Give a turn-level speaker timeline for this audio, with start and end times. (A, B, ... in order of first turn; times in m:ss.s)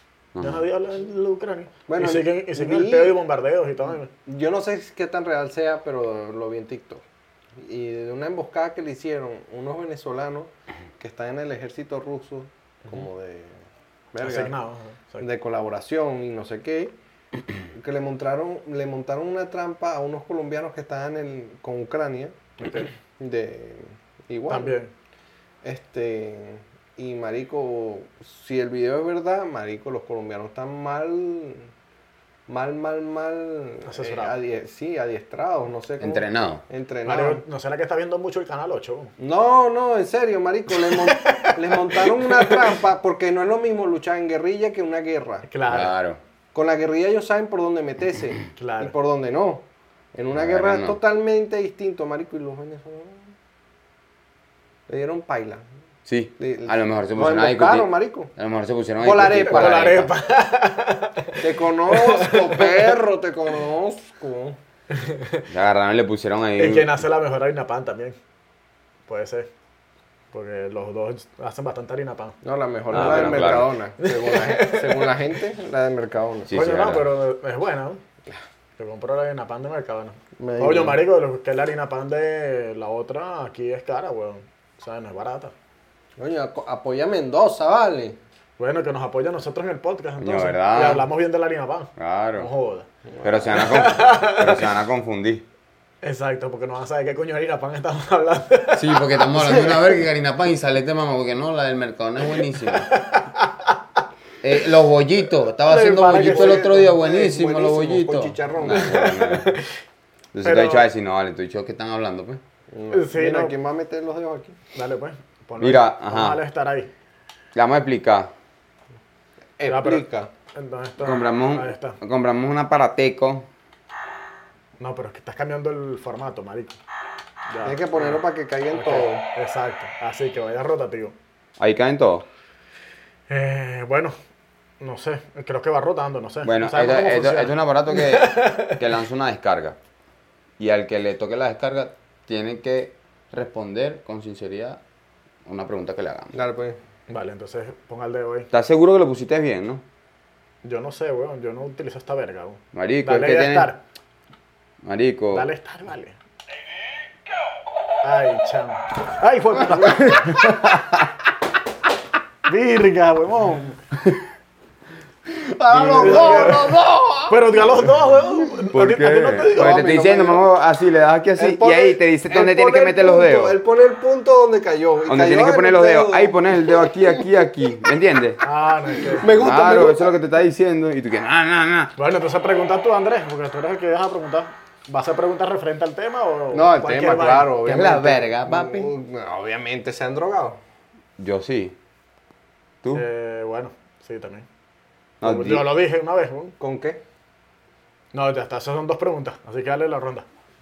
0:00.4-0:00.6 A
0:00.4-0:04.1 B
0:01.9-0:03.2 C
0:04.2-0:07.0 C
0:07.6-0:14.6 C
0:14.2-0:15.3 B
0:15.2-0:16.9 C
0:17.7-0:24.8 C
0:24.5-0:24.9 B
0:25.6-0:31.7 C
0:32.5-0:37.4 C
0:33.9-0:34.4 B
0:36.0-0:36.6 A
0:37.1-0:39.1 B
0:39.2-0:45.5 C
0:40.8-0:42.8 B
0:45.5-0:45.9 B
0:45.7-0:46.2 A
0:46.5-0:53.4 C
0:48.6-0:48.9 B
0:50.3-0:51.0 A
0:54.9-0:55.6 C
0:56.1-1:00.1 A
0:56.4-0:58.3 C
0:59.0-1:00.0 C
0:59.4-1:03.0 B
1:01.4-1:04.6 C
1:04.9-1:05.5 B
1:05.5-1:07.0 A
1:06.6-1:08.2 B
1:09.1-1:09.5 B
1:10.3-1:12.4 B
1:12.4-1:16.5 C
1:12.9-1:13.7 A
1:12.9-1:15.1 B
1:16.5-1:17.1 A
1:16.5-1:18.0 B
1:18.8-1:25.5 B
1:20.4-1:21.0 C
1:26.2-1:28.2 C
1:28.6-1:32.9 B
1:30.2-1:31.1 A
1:32.0-1:32.5 A
1:33.2-1:33.5 C
1:33.2-1:35.4 A
1:33.5-1:34.7 B
1:36.0-1:39.8 B
1:38.8-1:42.9 A
1:42.8-1:43.8 B
1:44.4-1:49.6 A
1:45.5-1:46.8 B
1:46.2-1:49.0 C
1:48.7-1:49.7 B
1:50.3-1:52.4 A
1:50.4-1:50.9 B
1:52.7-1:54.6 C
1:52.9-1:53.6 B
1:54.7-1:56.9 B
1:55.6-1:56.4 A
1:57.6-1:58.3 A
1:59.6-2:00.3 C
1:59.7-2:02.0 B
2:01.0-2:03.5 A
2:04.8-2:06.8 B
2:07.5-2:08.2 B
2:07.6-2:09.1 C
2:08.7-2:11.1 B
2:11.6-2:12.3 A
2:13.3-2:14.1 B
2:14.8-2:18.8 B
2:16.4-2:19.8 A
2:20.6-2:24.8 A
2:25.5-2:26.4 A
2:26.3-2:26.8 C
2:27.1-2:28.5 B
2:28.5-2:29.8 A
2:30.6-2:33.8 B
2:32.7-2:33.7 A
2:34.8-2:35.5 A
2:35.3-2:36.2 B
2:38.0-2:40.9 B
2:40.4-2:40.9 A
2:42.5-2:43.8 B
2:45.3-2:47.5 C
2:45.7-2:46.8 A
2:46.0-2:46.7 B
2:47.3-2:49.8 B
2:48.7-2:53.6 A
2:49.5-2:50.5 C
2:51.4-2:57.3 C
2:55.1-2:58.4 A
2:58.4-2:59.3 B
2:59.2-3:00.2 C
2:59.2-3:01.9 A
3:02.0-3:07.6 B
3:06.5-3:10.6 C
3:07.6-3:08.9 A
3:11.2-3:11.8 A
3:12.9-3:14.5 B
3:15.2-3:15.7 A
3:15.2-3:16.6 B
3:16.6-3:17.0 C
3:18.1-3:20.3 B